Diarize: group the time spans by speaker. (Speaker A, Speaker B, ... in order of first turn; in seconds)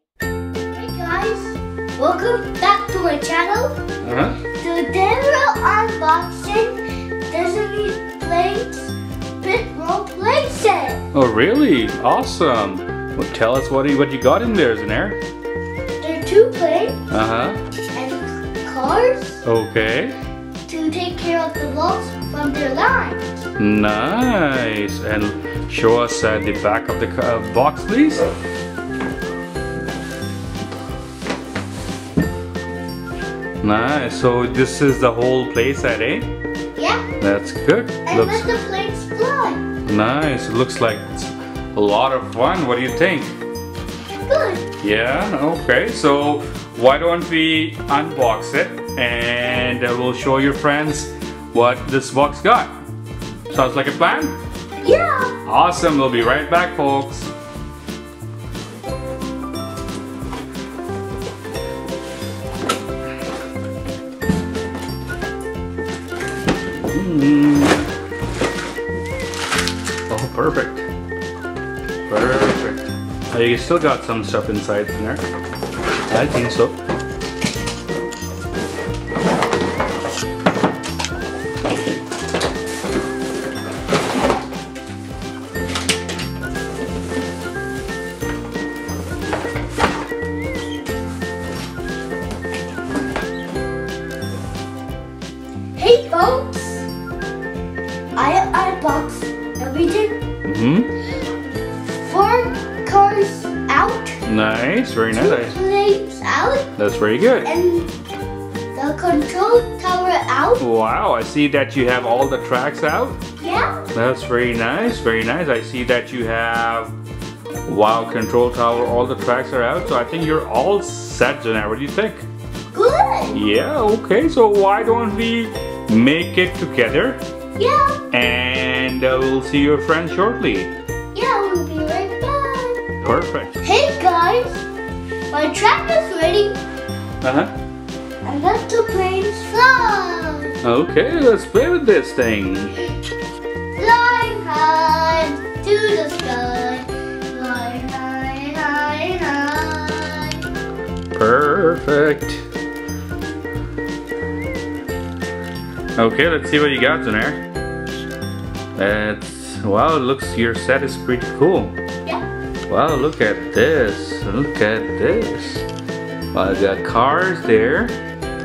Speaker A: 0.7-3.8, 4.5-11.0, 16.0-17.0, 17.9-19.4, 20.7-23.5, 36.8-37.0, 38.0-39.6, 44.3-44.6, 54.8-55.4, 95.8-96.9, 98.1-100.2, 102.0-104.2, 105.1-106.7, 107.4-107.9, 108.7-110.6, 113.4-113.9, 122.7-123.4, 127.6-128.0, 131.1-133.0, 133.6-134.6, 135.3-136.6, 138.2-140.6, 143.7-150.4
Speaker B: 4.0-4.4, 11.1-15.2, 17.1-17.6, 19.4-20.1, 23.6-28.3, 33.6-36.3, 37.2-38.5, 39.9-43.3, 44.8-52.7, 53.5-54.4, 55.5-57.3, 66.9-67.8, 70.1-70.8, 72.1-75.2, 76.1-76.8, 100.4-100.9, 104.2-105.5, 106.8-107.5, 110.6-113.2, 113.9-117.0, 117.7-122.2, 123.3-127.2, 128.1-130.7, 133.0-133.6, 137.2-137.5, 140.6-142.8, 151.1-152.4, 156.0-157.4, 158.8-161.7, 162.7-165.7, 166.3-167.9